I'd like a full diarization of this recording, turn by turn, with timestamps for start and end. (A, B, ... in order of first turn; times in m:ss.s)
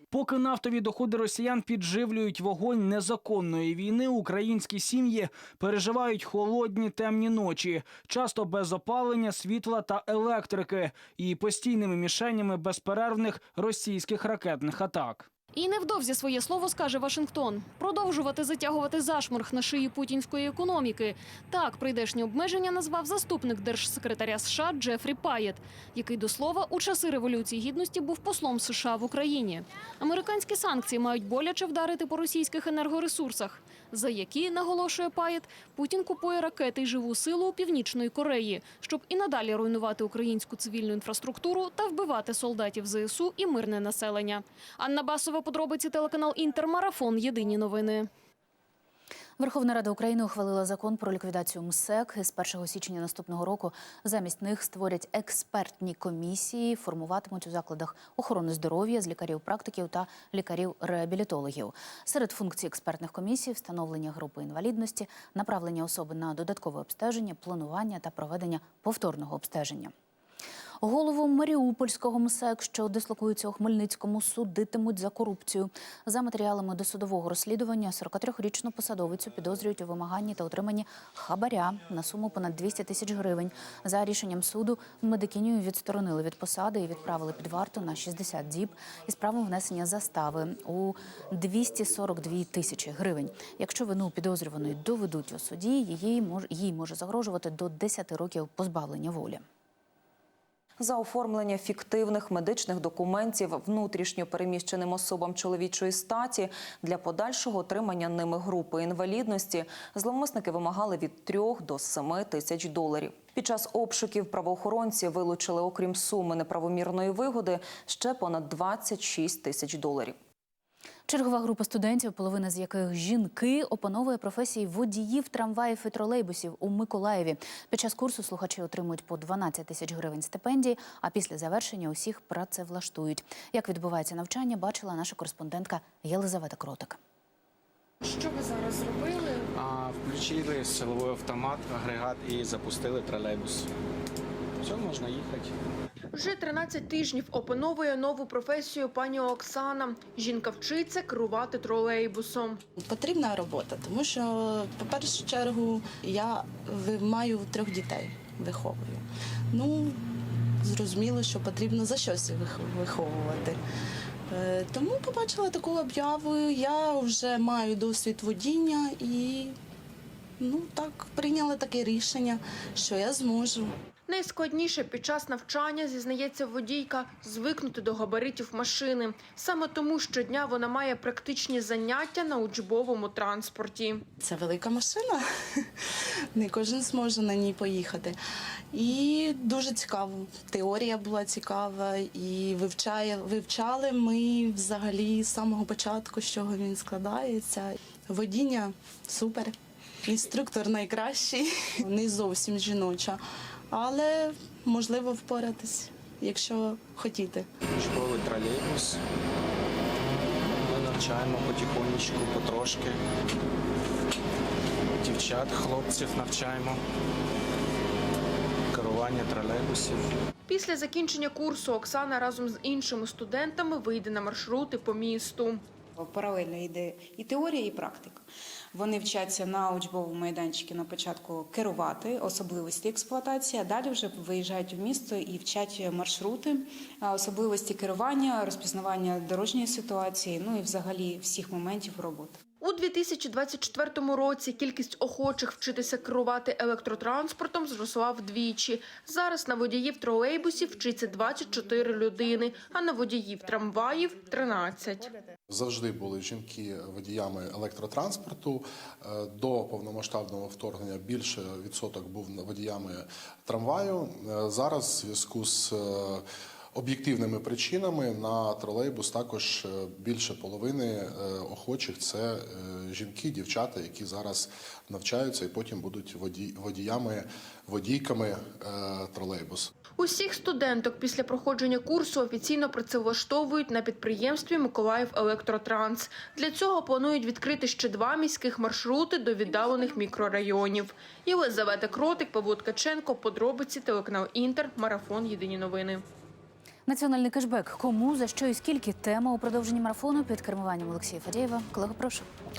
0:00.1-0:15.3 A
0:15.5-0:48.1 B
0:49.4-1:09.9 C
1:10.8-1:39.4 C
1:40.8-2:00.2 D
2:01.1-2:17.0 C
2:18.0-2:19.5 E
2:19.7-2:23.6 F
2:24.7-2:25.4 F
2:26.1-2:32.6 E
2:32.8-2:40.1 G
2:40.6-2:43.6 G
2:44.3-2:49.6 G
2:50.4-2:53.8 G
2:54.1-3:04.0 E
3:04.2-3:05.2 G
3:06.3-3:08.2 G
3:08.7-3:27.5 G
3:27.8-3:28.9 F
3:30.7-3:32.9 F
3:35.0-3:36.7 F
3:38.7-3:40.0 F
3:40.5-3:45.6 E
3:46.0-4:02.4 H
4:02.6-4:15.2 E
4:15.5-4:26.2 I
4:26.7-4:39.7 I
4:40.0-4:56.0 E
4:56.9-5:02.3 C